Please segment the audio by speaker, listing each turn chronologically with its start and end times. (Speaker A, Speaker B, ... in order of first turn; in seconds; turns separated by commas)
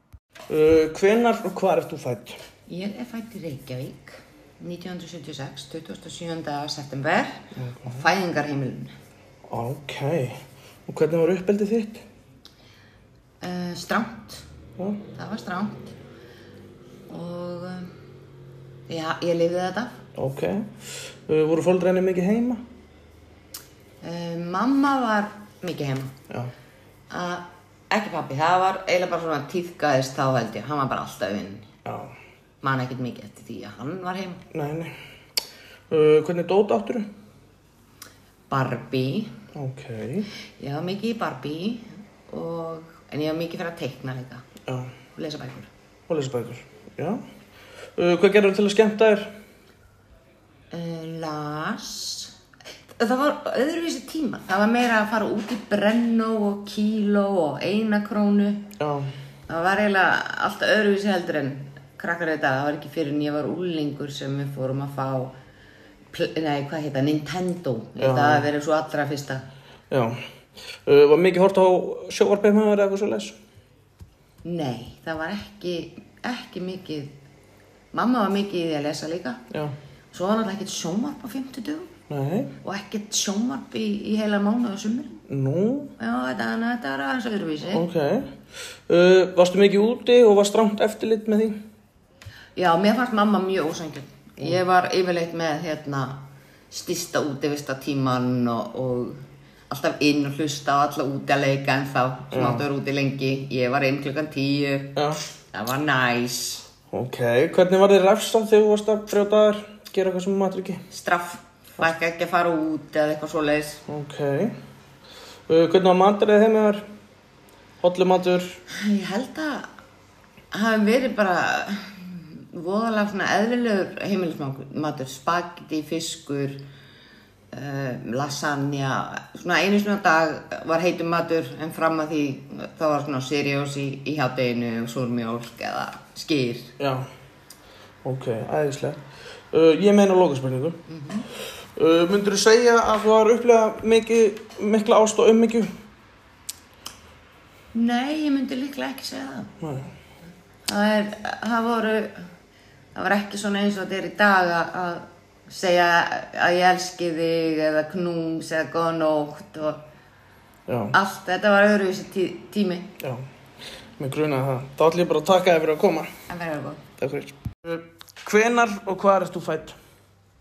Speaker A: 0.5-2.4, Speaker B: 2.7-8.9, Speaker A: 7.5-8.0, Speaker A: 9.5-12.0, Speaker B: 13.4-14.4, Speaker A: 14.8-15.0, Speaker B: 15.1-15.9, Speaker B: 17.1-17.9, Speaker B: 18.9-20.0, Speaker A: 20.1-22.6, Speaker B: 24.0-26.1, Speaker B: 27.1-31.7, Speaker A: 31.8-32.1, Speaker B: 32.6-34.4, Speaker A: 34.5-34.9, Speaker A: 35.9-37.1, Speaker B: 38.5-39.4, Speaker A: 39.5-40.3, Speaker B: 40.6-44.4, Speaker A: 44.7-44.9, Speaker B: 45.1-45.7, Speaker A: 46.1-47.2, Speaker A: 48.0-49.3, Speaker B: 50.7-52.3, Speaker B: 52.9-58.7, Speaker A: 58.8-59.1, Speaker B: 59.5-65.3, Speaker B: 66.1-69.4, Speaker A: 68.0-68.5, Speaker A: 69.9-70.2, Speaker A: 70.7-73.3, Speaker B: 74.4-77.1, Speaker B: 77.9-79.4, Speaker B: 80.1-81.9, Speaker A: 82.1-82.5, Speaker B: 82.6-85.2, Speaker A: 85.3-85.9, Speaker B: 86.0-87.9, Speaker A: 87.7-88.3, Speaker A: 88.9-91.6, Speaker B: 92.5-105.0, Speaker A: 102.3-102.6, Speaker A: 105.0-105.2, Speaker B: 105.5-106.7, Speaker A: 106.9-110.8, Speaker B: 110.9-113.8, Speaker A: 113.9-114.5, Speaker A: 115.5-116.8, Speaker A: 117.8-118.5, Speaker B: 118.7-119.7, Speaker B: 120.5-126.6, Speaker B: 127.5-136.7, Speaker A: 136.8-137.1, Speaker A: 138.0-139.0, Speaker A: 139.5-140.8, Speaker B: 140.8-141.2, Speaker A: 141.8-145.7, Speaker B: 147.7-149.5, Speaker A: 149.6-149.9, Speaker B: 150.6-152.2, Speaker B: 152.9-159.8, Speaker A: 160.7-160.9, Speaker B: 160.9-162.9, Speaker A: 164.0-166.1, Speaker B: 166.3-166.8, Speaker A: 167.0-169.8